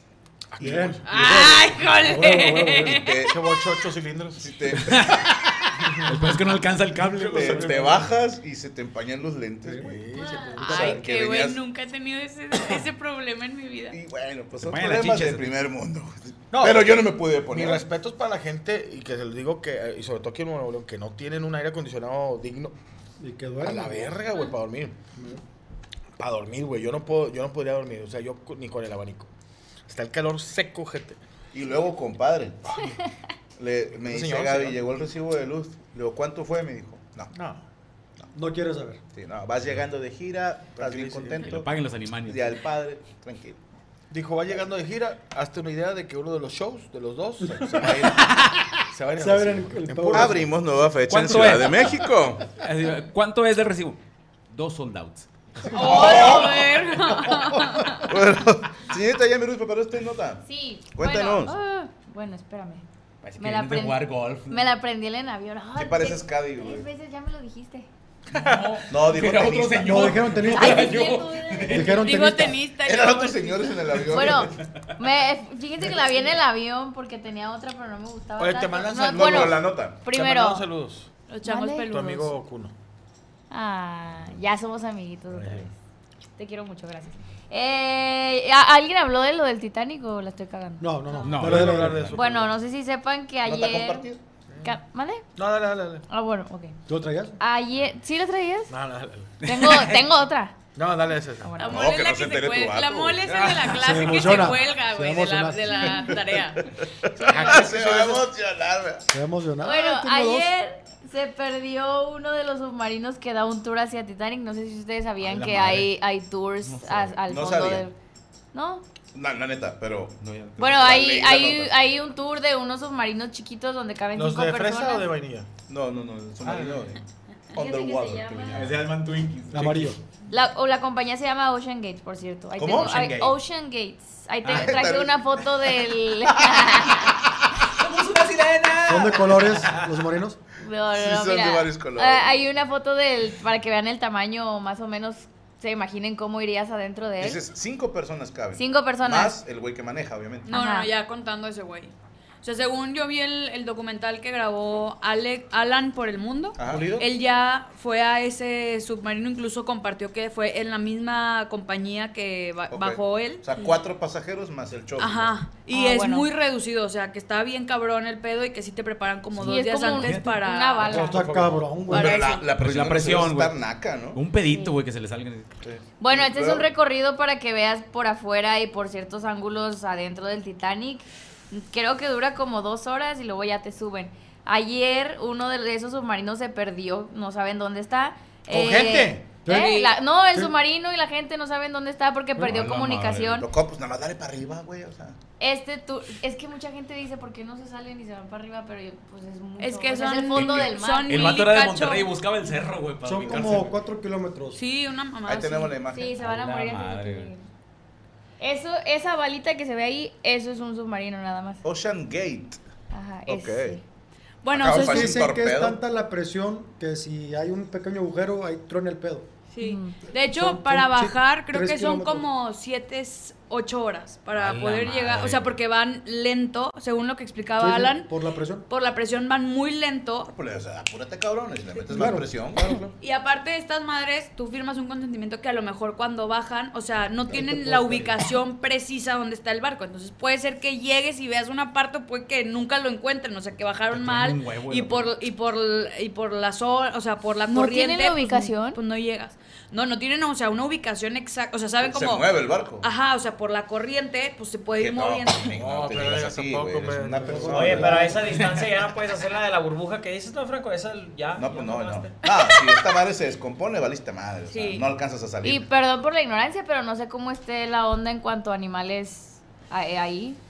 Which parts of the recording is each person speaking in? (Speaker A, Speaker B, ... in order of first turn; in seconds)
Speaker A: 0.5-4.8, 5.9-8.1, 9.8-10.9, 16.5-16.9, 17.5-22.8, 23.6-25.0, 26.2-29.3, 29.9-31.2, 34.0-34.8, 37.3-37.6, 41.0-41.4, 44.1-48.1, 48.9-51.6, 68.3-68.7, 78.4-81.1, 81.9-82.7, 91.3-92.5, 94.5-94.8, 95.4-96.0, 98.7-99.4, 100.8-101.5, 107.2-108.2, 124.2-125.5, 126.4-126.9, 156.6-157.1, 170.8-171.8, 188.5-189.3, 255.5-257.9
Speaker B: 0.6-1.0, 2.9-3.4, 4.4-5.3, 7.3-10.1, 10.6-11.6, 13.9-17.9, 31.5-32.9, 33.6-37.3, 39.1-41.7, 42.2-43.6, 47.8-48.3, 50.1-52.5, 55.7-56.8, 58.0-61.5, 65.8-66.9, 68.9-70.3, 72.8-74.6, 79.1-80.0, 93.4-94.2, 101.6-103.3, 107.2-109.1, 117.3-117.8, 119.1-121.8, 125.7-127.0, 127.5-128.8, 132.6-133.3, 134.4-135.5, 136.5-136.8, 140.9-142.4, 147.2-150.5, 156.6-156.9, 162.7-165.4, 171.9-174.2, 175.6-176.7, 193.4-195.2, 205.3-206.2, 211.6-212.6, 213.3-213.8, 214.5-215.8, 230.3-232.7, 251.8-252.9, 254.8-258.1, 261.4-265.7
Speaker C: 0.6-3.0, 9.7-11.1, 23.2-24.1, 25.1-25.4, 38.3-39.0, 49.2-50.5, 69.8-71.1, 71.7-72.6, 90.8-92.2, 96.9-97.4, 103.7-106.1, 109.1-110.5, 129.5-130.0, 138.9-140.4, 170.8-172.3, 189.4-189.7, 203.0-204.6, 214.7-219.3, 220.1-222.3, 227.6-228.6, 231.9-232.9, 237.3-238.1, 257.2-258.4
Speaker D: 1.1-3.2, 10.6-14.0, 55.7-58.1, 71.9-74.0, 81.3-82.3, 101.6-106.7, 150.5-163.5, 165.0-170.9, 171.9-172.5, 189.5-189.9, 199.6-202.1, 204.5-205.8, 214.4-215.3, 219.5-228.1, 228.7-230.3, 233.0-252.3, 252.8-255.5, 262.3-262.7, 264.5-264.9
Speaker E: 4.8-7.7, 14.6-15.6, 41.4-42.5, 51.1-51.9, 52.6-54.0, 54.5-56.4, 63.2-64.7, 68.3-72.0, 91.2-92.1, 99.4-100.1, 103.3-104.4, 115.2-115.9, 116.6-117.2, 120.2-120.6, 128.5-129.9, 132.8-133.3, 137.6-140.0, 169.9-170.4, 172.6-173.6, 174.1-175.5, 192.4-193.4, 200.3-203.8, 206.2-207.3, 224.4-225.5, 243.9-245.2
Speaker F: 10.2-10.6, 60.5-62.9, 63.4-67.9, 70.5-72.1, 74.1-80.7, 81.5-81.9, 83.5-85.7, 86.4-91.3, 92.1-94.1, 94.6-95.3, 96.1-96.8, 97.4-98.7, 99.4-100.6, 101.4-101.8, 109.6-117.9, 118.5-118.8, 120.6-125.1, 127.5-128.7, 130.3-137.2, 140.6-147.4, 148.5-149.4, 150.5-150.9, 165.7-166.3, 169.4-171.3, 174.5-174.8, 176.0-193.5, 195.4-201.3, 205.9-207.4, 208.4-211.6, 212.9-213.8, 219.6-220.0, 247.5-248.8, 265.4-270.4
Speaker G: 224.8-225.0, 257.4-262.1